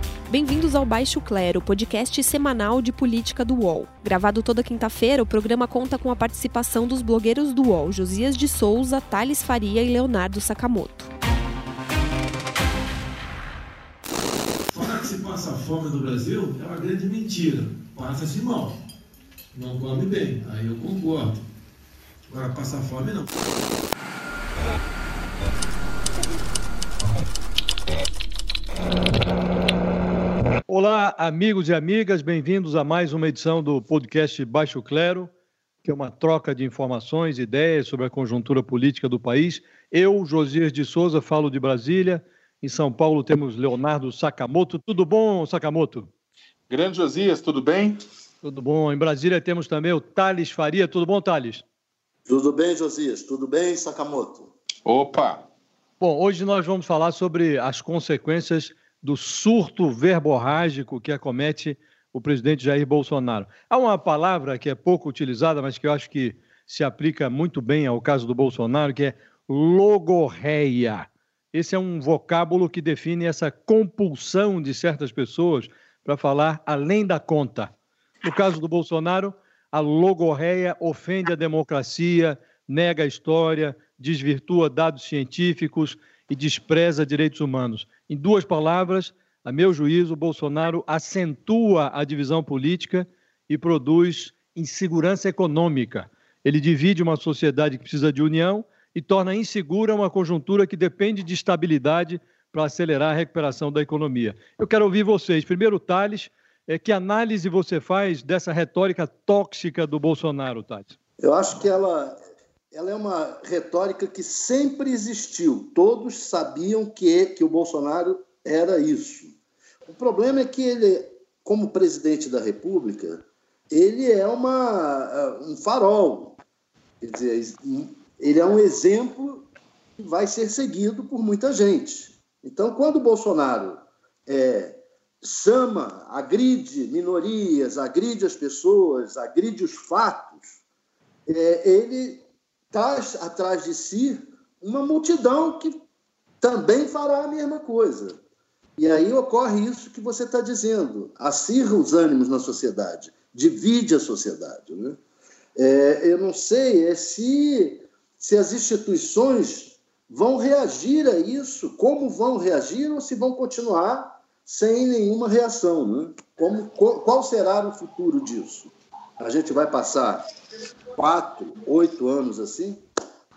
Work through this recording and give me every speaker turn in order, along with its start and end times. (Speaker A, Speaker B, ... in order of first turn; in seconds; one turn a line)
Speaker A: 0.3-11.1
Speaker B: 14.7-18.8
Speaker B: 19.5-21.4
Speaker B: 22.3-23.2
Speaker C: 30.7-35.3
Speaker C: 35.8-46.1
Speaker D: 46.7-48.0
Speaker C: 48.4-51.6
Speaker E: 52.2-54.5
Speaker D: 54.9-55.4
Speaker C: 56.0-77.7
Speaker C: 78.2-111.0
Speaker E: 111.2-112.2
Speaker E: 112.7-119.3
Speaker E: 119.9-126.4
Speaker E: 127.0-129.5
Speaker E: 130.0-140.6
Speaker E: 141.3-145.8
Speaker E: 146.4-148.2
Speaker E: 148.8-155.0
Speaker E: 155.6-170.3
Speaker E: 171.0-172.8